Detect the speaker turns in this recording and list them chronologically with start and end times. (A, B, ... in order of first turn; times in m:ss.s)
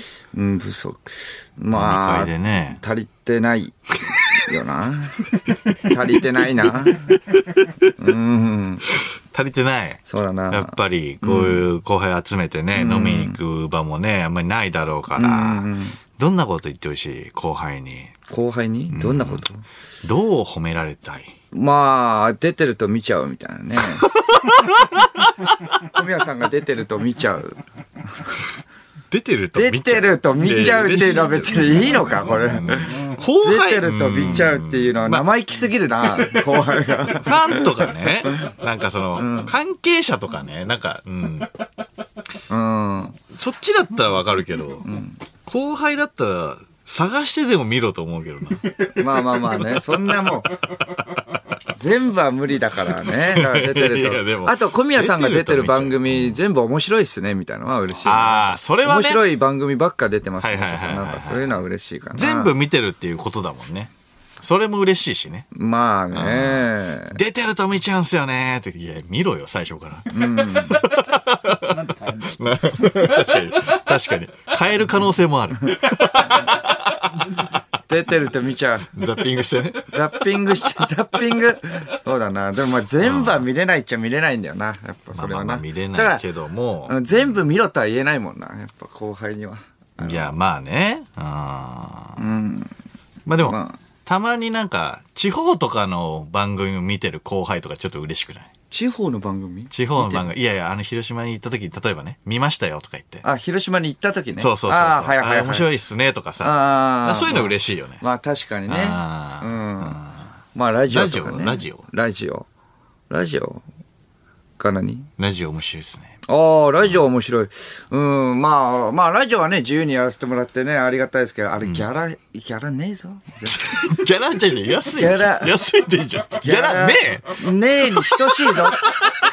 0:00.3-0:05.3 A
0:01.7-0:02.8 B
0:04.1-0:04.5 B
0:05.8-0:07.2 A
0:07.5-0:07.8 B
0:08.0-0:08.8 A
0:08.9-0:18.2 B
0:10.1-0:11.6 A
0:12.8-0:13.4 A
0:15.1-0:16.0 A
0:18.3-0:19.6 A
0:18.9-0:19.4 B
0:20.0-0:21.3 B
0:21.5-0:24.1 A
0:23.9-0:25.5 B
0:25.8-0:28.3 A
0:29.1-0:35.3 B
0:29.5-0:38.3 A
0:37.0-0:41.6 B
0:39.2-0:39.5 A
0:42.5-0:43.2 A
0:43.3-0:44.9 B
0:44.8-0:45.2 A
0:45.4-0:48.9 B
0:48.9-0:50.6 A
0:50.9-0:51.2 B
0:51.7-1:02.5 A
0:53.0-0:56.4 B
0:57.9-0:59.2 B
1:00.4-1:01.6 B
1:02.1-1:05.5 B
1:05.5-1:07.2 A
1:06.1-1:17.4 B
1:10.1-1:10.9 A
1:17.9-1:18.9 A
1:18.9-1:20.2 B
1:19.9-1:26.2 A
1:23.0-1:23.4 B
1:25.1-1:27.3 B
1:26.9-1:30.3 A
1:30.0-1:32.2 B
1:32.2-1:32.7 A
1:33.3-1:38.5 B
1:33.4-1:33.8 A
1:38.7-1:40.3 A
1:39.7-1:43.2 B
1:43.2-1:45.7 A
1:44.4-1:48.0 B
1:46.4-1:50.0 A
1:48.7-1:50.3 B
1:50.5-1:52.4 A
1:50.9-1:51.8 B
1:53.1-1:53.6 A
1:54.6-1:55.1 A
1:55.2-1:56.1 B
1:56.3-2:03.8 A
2:03.5-2:09.2 B
2:04.9-2:05.6 A
2:06.4-2:08.8 A